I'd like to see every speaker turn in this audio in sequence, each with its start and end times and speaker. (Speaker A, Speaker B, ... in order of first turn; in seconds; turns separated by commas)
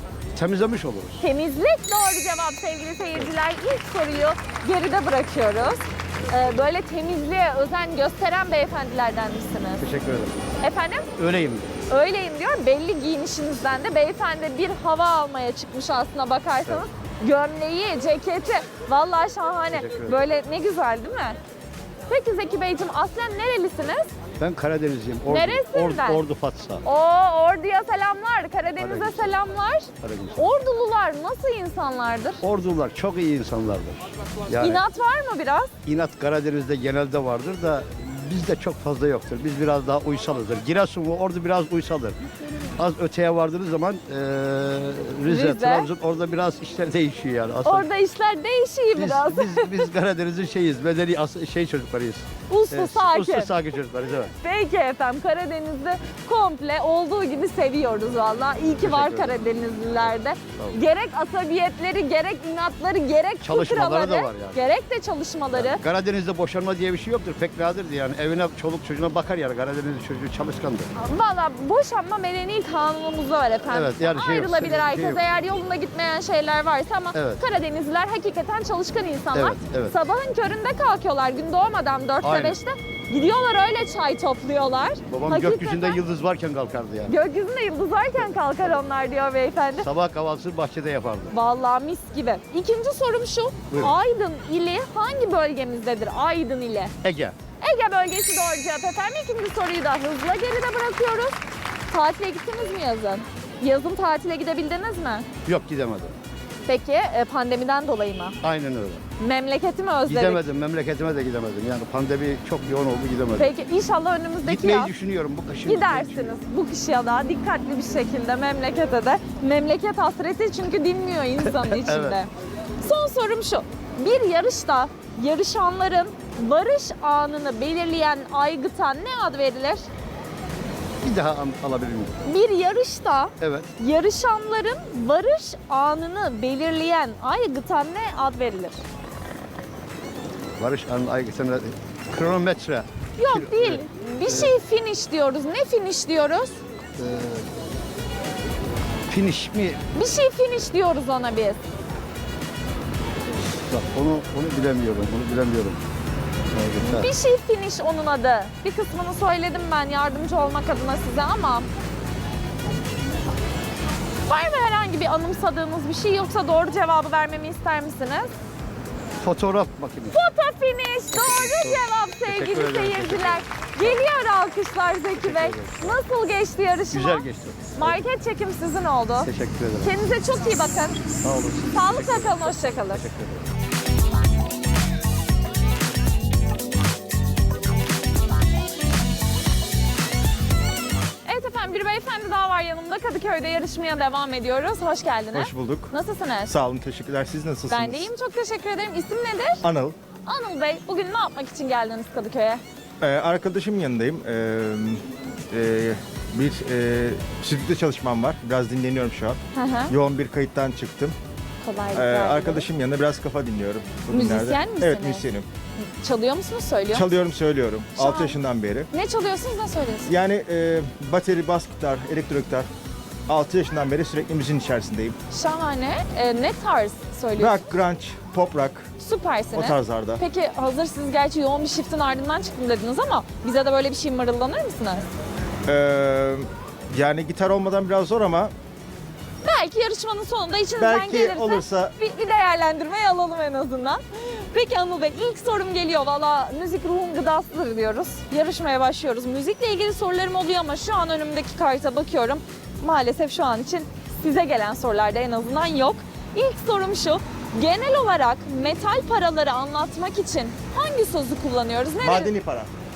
Speaker A: 0.3-1.2, Speaker B: 1.2-9.8, Speaker A: 9.8-10.4, Speaker B: 10.6-11.1, Speaker A: 11.2-11.7, Speaker B: 11.9-21.4, Speaker A: 19.7-20.2, Speaker B: 22.1-24.1, Speaker A: 24.4-26.8, Speaker B: 25.3-26.2, Speaker B: 26.8-32.4, Speaker A: 28.8-29.4, Speaker A: 30.0-30.5, Speaker A: 32.4-34.8, Speaker B: 34.5-35.7, Speaker A: 35.9-42.2, Speaker A: 42.8-47.9, Speaker B: 45.2-45.9, Speaker B: 47.6-49.9, Speaker A: 48.9-54.3, Speaker B: 52.5-53.5, Speaker B: 54.4-65.8, Speaker A: 58.8-59.4, Speaker A: 63.4-64.6, Speaker A: 65.5-70.9, Speaker B: 70.9-86.0, Speaker A: 73.7-75.2, Speaker A: 77.2-77.4, Speaker A: 79.3-80.0, Speaker A: 82.2-82.6, Speaker A: 85.1-87.2, Speaker B: 87.1-89.9, Speaker A: 89.8-91.3, Speaker B: 91.3-96.9, Speaker A: 97.0-97.4, Speaker B: 97.6-105.3, Speaker A: 105.4-106.2, Speaker B: 106.7-108.4, Speaker A: 108.4-109.0, Speaker B: 109.2-110.5, Speaker A: 110.0-113.5, Speaker B: 113.3-114.9, Speaker A: 114.4-116.4, Speaker B: 115.7-129.9, Speaker A: 121.5-122.2, Speaker A: 131.0-132.2, Speaker B: 132.2-138.8, Speaker A: 133.4-133.7, Speaker A: 140.6-144.6, Speaker B: 143.2-146.6, Speaker A: 147.0-147.5, Speaker A: 149.1-149.8, Speaker B: 149.9-151.6, Speaker A: 153.7-155.8, Speaker A: 156.5-157.1, Speaker B: 156.8-161.7, Speaker B: 164.2-168.3, Speaker A: 169.2-170.2, Speaker B: 170.1-177.2, Speaker A: 171.1-174.0, Speaker A: 175.2-176.0, Speaker A: 176.9-178.0, Speaker B: 177.8-181.0, Speaker A: 179.2-179.9, Speaker A: 181.2-183.5, Speaker B: 181.7-183.0, Speaker B: 191.2-196.5, Speaker C: 195.3-195.9, Speaker C: 196.5-198.1, Speaker B: 197.7-199.6, Speaker C: 199.6-200.0, Speaker B: 200.2-202.6, Speaker C: 203.0-211.2, Speaker B: 209.5-209.9, Speaker B: 211.6-212.7, Speaker C: 211.9-215.5, Speaker B: 214.1-215.2, Speaker B: 215.8-217.1, Speaker C: 216.9-218.9, Speaker B: 218.0-218.4, Speaker B: 218.9-220.1, Speaker C: 220.1-222.7, Speaker C: 223.3-225.2, Speaker B: 225.3-227.6, Speaker C: 227.4-228.9, Speaker B: 229.0-235.1, Speaker C: 229.6-230.2, Speaker C: 235.7-238.5, Speaker B: 239.4-262.3, Speaker C: 240.8-241.9, Speaker C: 262.0-262.7